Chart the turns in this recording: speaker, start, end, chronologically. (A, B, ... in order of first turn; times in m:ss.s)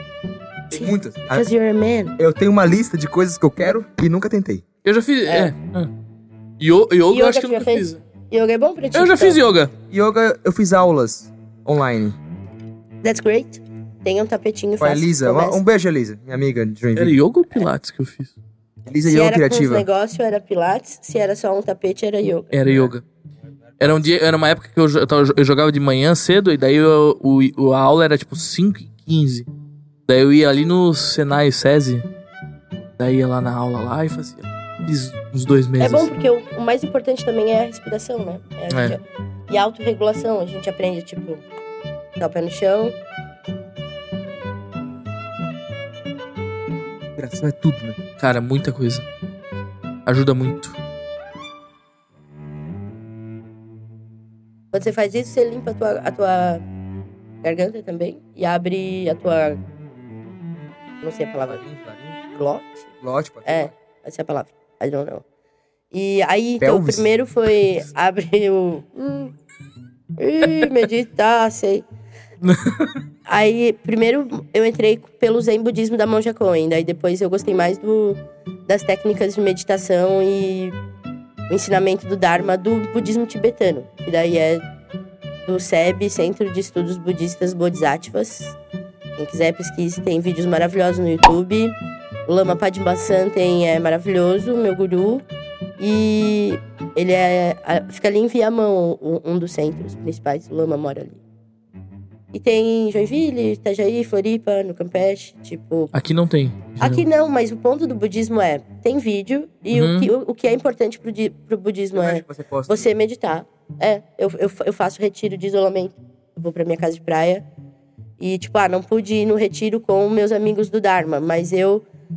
0:00.7-0:01.4 A
0:00.7-0:02.1 B
0:02.2-0:04.6 A
0:04.8-0:05.9 C
0:05.3-0:05.5 B
0:06.6-0:08.0 C
0:07.1-0:09.4 B
0:08.9-0:09.7 C
0:09.9-0:12.2 A
0:13.0-0:15.6 B
0:14.8-0:17.2 A
0:17.0-0:18.3 C
0:18.8-0:19.9 A
0:19.0-0:22.8 B
0:22.5-0:23.0 C
0:23.8-0:29.5 C
0:30.1-0:32.0 C
0:33.0-0:36.1 C
0:35.8-0:41.4 B
0:38.7-0:39.0 C
0:42.2-0:42.9 B
0:47.2-0:48.0 A
0:48.2-0:49.0 C
0:50.0-0:50.8 C
0:54.7-0:56.6 B
0:57.4-0:59.6 B
1:01.0-1:01.6 B
1:01.5-1:02.2 A
1:02.3-1:02.9 B
1:03.0-1:03.7 A
1:03.4-1:05.2 B
1:05.9-1:09.3 B
1:06.6-1:07.0 A
1:10.2-1:11.8 B
1:12.4-1:12.9 C
1:13.3-1:20.7 B
1:21.5-1:24.6 B
1:25.4-1:28.6 B
1:29.2-1:31.7 B
1:32.3-1:35.2 B
1:35.8-1:41.2 B
1:42.3-1:45.9 B
1:45.9-1:47.0 C
1:46.8-1:57.4 B
1:49.7-1:50.1 C
1:51.9-1:52.9 A
1:58.2-2:01.8 B